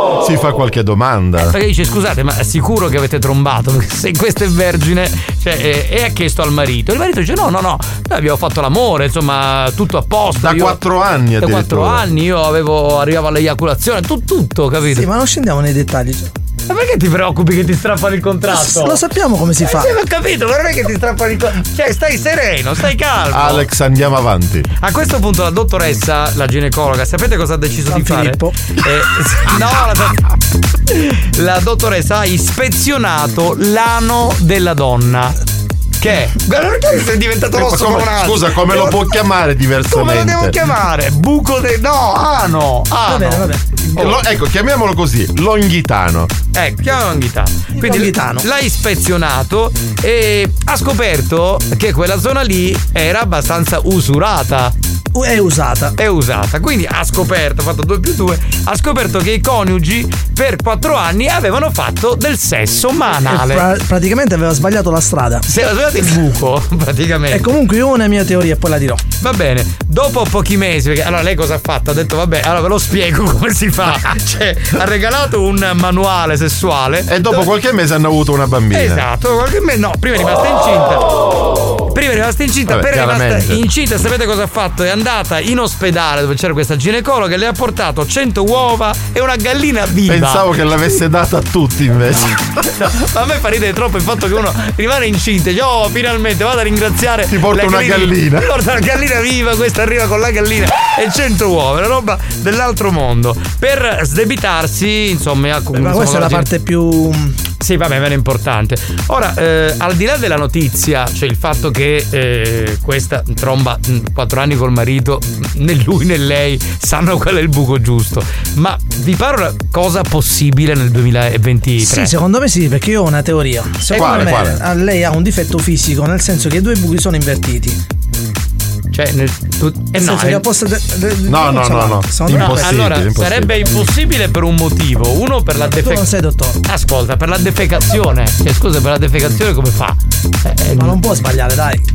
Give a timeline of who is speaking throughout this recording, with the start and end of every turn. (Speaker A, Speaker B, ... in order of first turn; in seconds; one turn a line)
Speaker A: 0.2-1.5
Speaker B: 1.4-10.8
Speaker A: 10.4-12.1
Speaker B: 11.4-15.1
Speaker C: 14.9-16.3
Speaker B: 16.7-19.0
Speaker C: 18.5-19.9
Speaker B: 19.6-23.7
Speaker A: 23.3-24.7
Speaker B: 24.8-30.2
Speaker C: 27.9-28.5
Speaker B: 30.9-35.4
Speaker B: 36.0-39.0
Speaker A: 37.5-40.6
Speaker B: 39.9-44.2
Speaker C: 43.0-43.8
Speaker A: 44.0-46.3
Speaker B: 46.5-54.7
Speaker C: 47.8-48.4
Speaker C: 55.1-55.9
Speaker B: 56.0-63.6
Speaker C: 63.2-65.4
Speaker B: 65.5-67.4
Speaker C: 67.3-69.0
Speaker B: 69.2-77.5
Speaker A: 77.1-79.0
Speaker B: 78.7-81.1
Speaker B: 81.9-90.4
Speaker A: 82.7-83.6
Speaker A: 90.1-92.6
Speaker B: 92.8-106.5
Speaker A: 97.3-98.5
Speaker C: 105.7-107.4
Speaker B: 107.6-122.1
Speaker C: 121.8-127.8
Speaker A: 123.9-124.6
Speaker B: 123.9-124.3
Speaker B: 128.9-130.4
Speaker C: 129.9-132.8
Speaker A: 131.3-133.6
Speaker B: 132.3-136.1
Speaker C: 135.8-136.6
Speaker B: 136.7-141.0
Speaker C: 140.7-141.8